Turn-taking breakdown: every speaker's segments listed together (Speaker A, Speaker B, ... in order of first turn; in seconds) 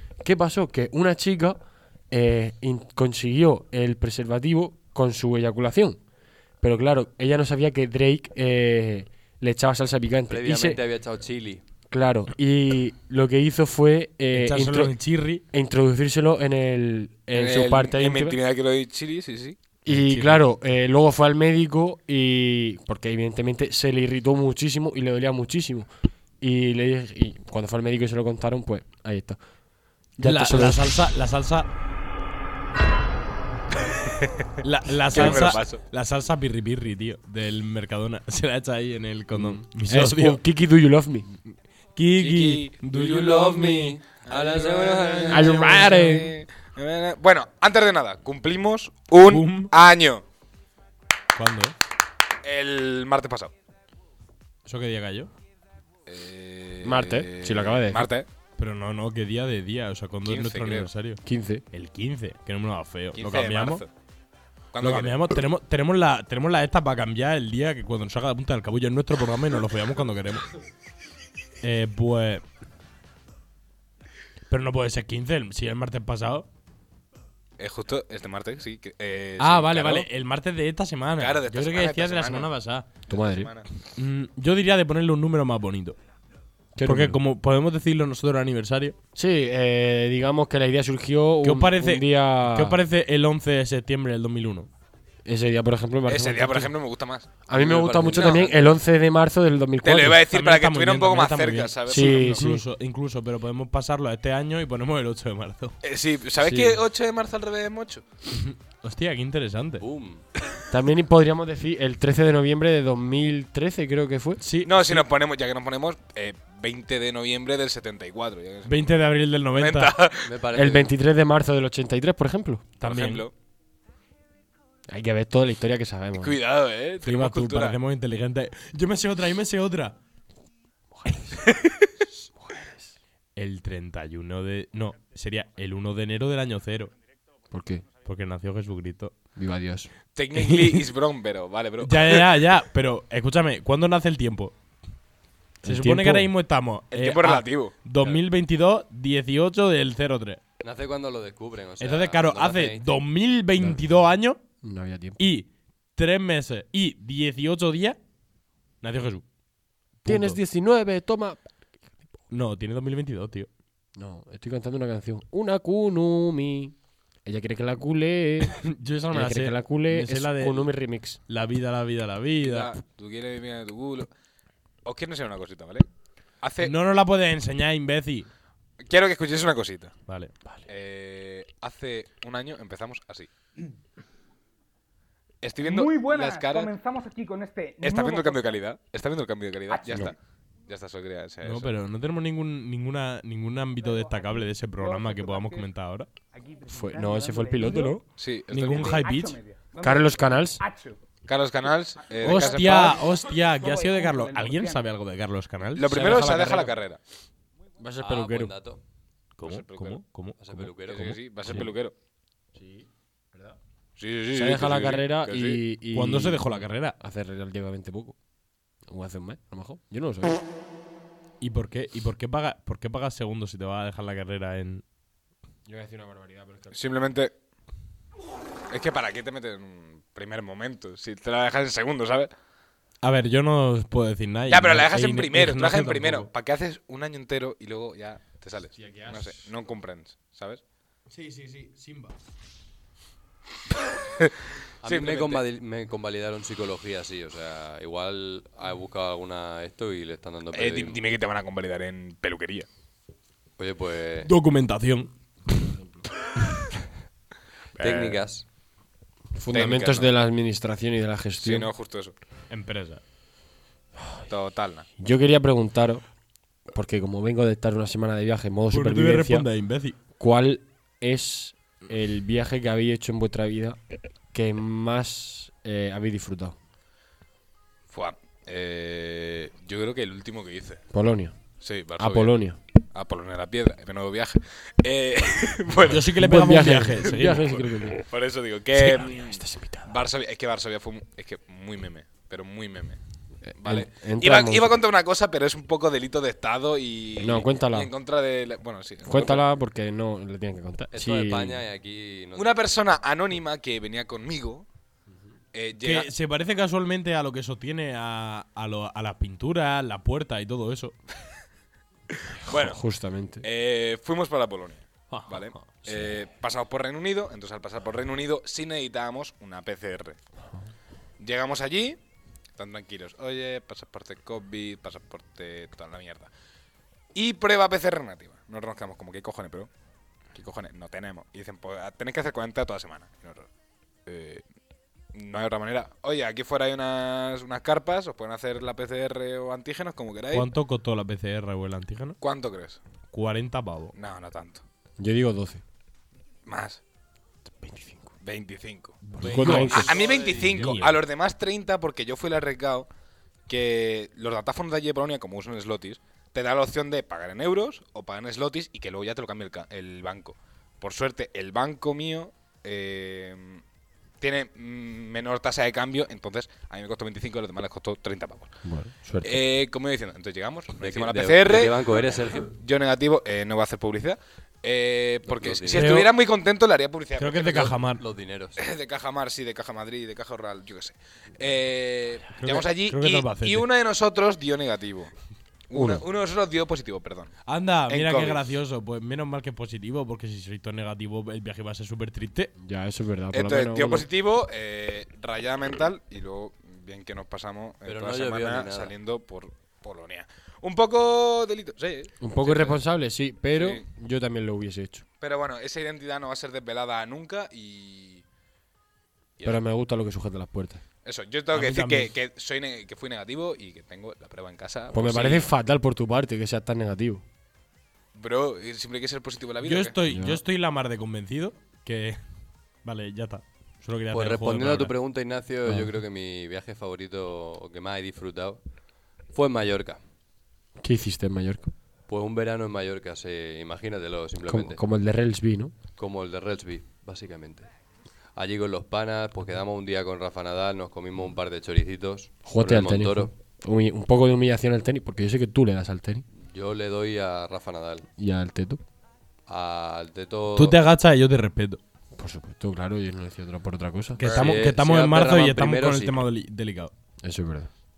Speaker A: 0.2-1.6, 2.1-6.0, 6.6-10.8, 11.9-14.9, 15.5-18.4, 19.8-29.4, 30.2-31.1, 39.3-41.3, 45.3-46.3, 56.8-58.1, 61.2-61.6, 83.1-83.5, 86.8-87.2, 89.1-92.8, 95.2-96.7, 97.5-100.2, 101.8-102.6, 106.4-106.8, 110.7-114.4, 120.5-122.7, 124.9-126.4, 130.9-131.4, 132.4-132.9, 137.5-137.8, 139.3-139.9, 145.6-146.3, 154.6-155.2, 160.1-161.5, 163.9-171.2, 196.7-198.0, 199.8-200.6, 205.9-206.7, 207.8-208.5, 212.6-212.8, 214.3-218.2, 218.9-220.4, 225.7-226.8, 238.8-239.5, 259.3-261.7, 265.0-266.0, 266.7-269.5, 270.2-273.8, 274.3-276.6, 280.9-281.4, 281.9-282.6, 286.2-288.0, 288.8-290.0, 293.4-294.8, 297.2-297.9, 299.1-301.6, 312.4-313.4, 345.0-345.6, 347.5-348.1, 349.2-350.0, 368.6-369.4, 385.7-386.1, 392.6-394.1, 402.2-405.1, 409.4-410.8, 414.9-417.2, 420.1-420.4, 425.6-425.9, 430.8-431.7, 434.4-435.7, 442.4-446.2, 448.2-448.8, 452.2-454.2, 457.2-457.7
Speaker B: 10.3-11.6, 42.9-45.9, 97.5-98.5, 109.8-110.2, 120.2-120.9, 150.6-152.9, 208.0-208.8, 210.4-211.2, 244.8-251.0, 253.6-254.3, 257.8-258.4, 300.9-302.6, 370.8-372.5, 375.2-376.0, 378.0-378.6, 397.8-398.9, 424.1-428.6, 429.3-430.0, 432.1-434.8, 436.0-437.7, 438.4-443.3, 446.4-448.1, 449.5-450.8, 454.2-456.3
Speaker C: 14.3-15.4, 19.9-20.4, 30.2-31.7, 34.6-40.4, 42.0-44.0, 49.3-49.7, 51.4-51.8, 54.6-55.3, 58.6-61.2, 61.7-63.8, 64.8-70.5, 71.6-72.4, 74.5-76.5, 79.4-82.9, 84.0-86.0, 86.8-89.0, 91.4-94.7, 100.3-105.8, 108.3-109.8, 114.4-115.1, 118.7-120.0, 122.8-123.2, 127.0-129.9, 133.3-136.9, 138.1-139.1, 140.3-140.8, 141.8-144.5, 145.6-150.4, 151.8-154.4, 155.2-158.0, 158.8-159.2, 160.0-160.4, 162.3-163.5, 168.6-170.7, 171.3-172.8, 176.6-178.3, 180.1-180.3, 191.4-196.1, 198.5-199.4, 202.2-206.7, 209.4-210.7, 215.9-216.9, 221.4-224.8, 233.0-236.3, 241.1-242.1, 254.2-255.7, 262.5-263.0, 268.7-270.0, 285.9-287.4, 305.8-311.0, 315.1-315.7, 340.3-342.2, 343.1-343.9, 349.0-351.0, 375.7-376.1, 377.2-378.0, 382.4-383.7, 387.4-392.5, 411.5-412.1, 419.6-422.2, 422.8-424.9, 450.6-451.8, 454.2-456.9
Speaker D: 17.3-19.6, 34.1-34.4, 35.1-35.8, 42.1-42.8, 44.2-50.2, 52.4-53.5, 56.1-58.3, 60.2-60.9, 63.1-63.9, 64.7-65.2, 77.6-80.1, 81.2-82.5, 83.1-83.7, 96.1-97.3, 98.1-98.6, 99.8-102.4, 105.8-108.0, 114.6-118.9, 119.5-120.3, 122.8-123.3, 126.2-127.8, 140.1-142.2, 146.9-147.7, 172.4-174.1, 174.8-175.9, 176.4-176.8, 178.8-180.0, 180.7-183.3, 185.4-186.7, 187.8-190.2, 190.7-191.7, 198.2-199.0, 201.2-203.0, 205.8-207.0, 209.4-210.0, 210.8-211.9, 214.0-215.6, 226.7-227.3, 228.7-232.3, 234.5-240.6, 244.8-245.4, 250.5-252.7, 257.8-258.2, 259.5-260.1, 261.4-262.1, 264.3-264.9, 277.9-280.8, 281.6-282.3, 282.9-286.1, 287.2-293.0, 293.6-299.4, 302.4-304.7, 305.5-306.1, 312.4-312.8, 313.4-320.2, 321.2-322.0, 322.6-326.3, 327.1-329.7, 330.3-333.5, 334.1-334.4, 335.1-340.5, 342.2-342.8, 343.9-344.6, 346.4-346.8, 348.2-352.9, 353.5-363.6, 364.2-368.6, 369.2-371.9, 372.5-377.8, 378.6-385.1, 385.7-387.3, 387.9-388.4, 393.3-402.8, 403.5-403.8, 405.2-408.2, 411.0-415.5, 418.1-419.9
Speaker E: 185.6-188.6, 189.7-190.1, 193.8-195.7, 196.3-198.1, 198.7-201.0, 202.1-204.8